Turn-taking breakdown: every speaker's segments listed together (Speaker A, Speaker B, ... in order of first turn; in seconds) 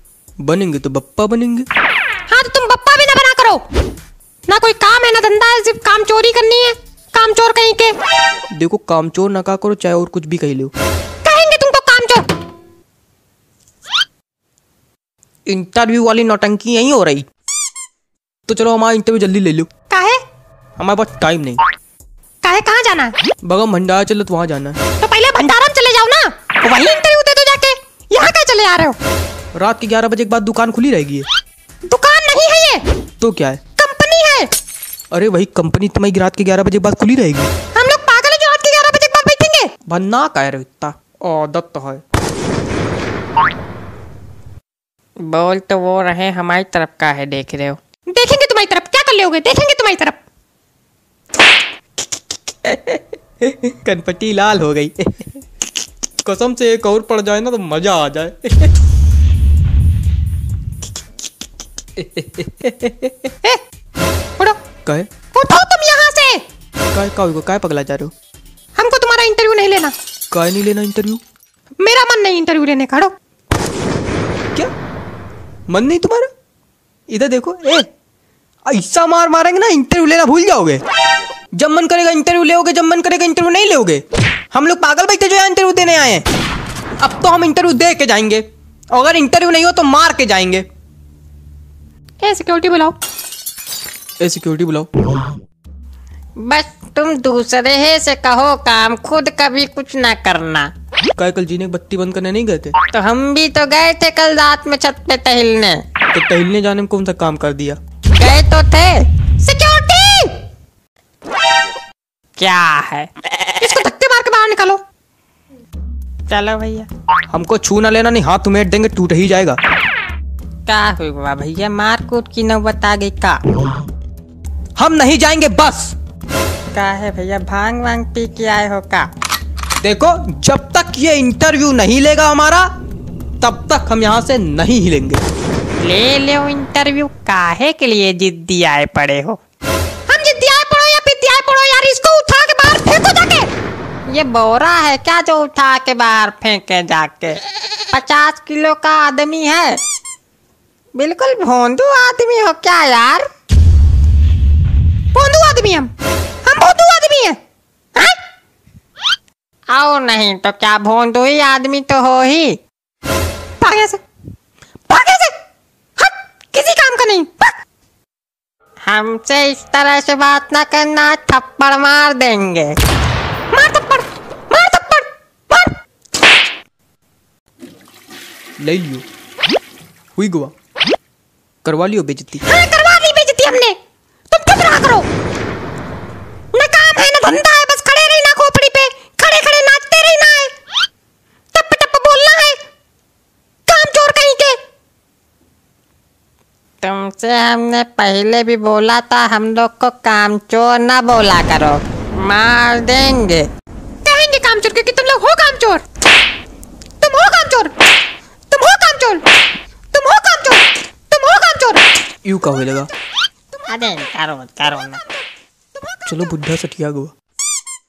Speaker A: 0.4-1.7, 8.5-10.7, 15.4-17.2, 18.5-19.7, 20.8-21.6, 23.4-24.8, 29.5-31.3, 33.2-33.6, 35.1-37.5, 39.9-42.0, 52.6-55.4, 56.2-58.7, 62.0-63.1, 66.9-68.1, 70.3-71.2, 75.7-76.3, 77.1-77.9, 78.6-80.8, 81.5-86.3, 87.0-90.7, 94.2-95.2, 101.2-102.8, 106.1-107.8, 117.3-119.6, 124.8-126.0, 129.8-132.7, 133.4-135.2, 178.6-179.0, 180.2-180.5, 181.6-182.4, 212.2-212.9, 216.1-217.1
Speaker B: 2.3-3.6, 4.5-8.0, 11.2-12.3, 19.9-20.2, 22.4-23.1, 25.0-29.0, 31.9-32.8, 33.8-34.5, 37.7-39.7, 48.1-50.2, 65.3-66.4, 68.8-69.9, 71.8-73.1, 92.2-93.0, 109.4-110.4, 113.6-114.8, 140.1-143.5, 155.1-155.9, 156.4-157.4, 163.6-164.0, 164.9-165.3, 166.0-167.5, 173.5-175.7, 182.4-183.8, 184.3-185.1, 186.5-190.5, 191.5-192.6, 193.7-194.6, 204.0-205.8, 207.0-207.7, 208.5-209.2, 209.9-211.8
Speaker C: 45.2-47.8, 96.4-100.7, 102.9-105.8, 108.1-109.1, 112.4-113.1, 116.3-116.9, 120.7-123.4, 126.7-129.1, 135.8-139.4, 144.1-149.8, 150.9-153.2, 159.7-162.6, 168.8-172.8, 196.8-203.5, 213.7-215.0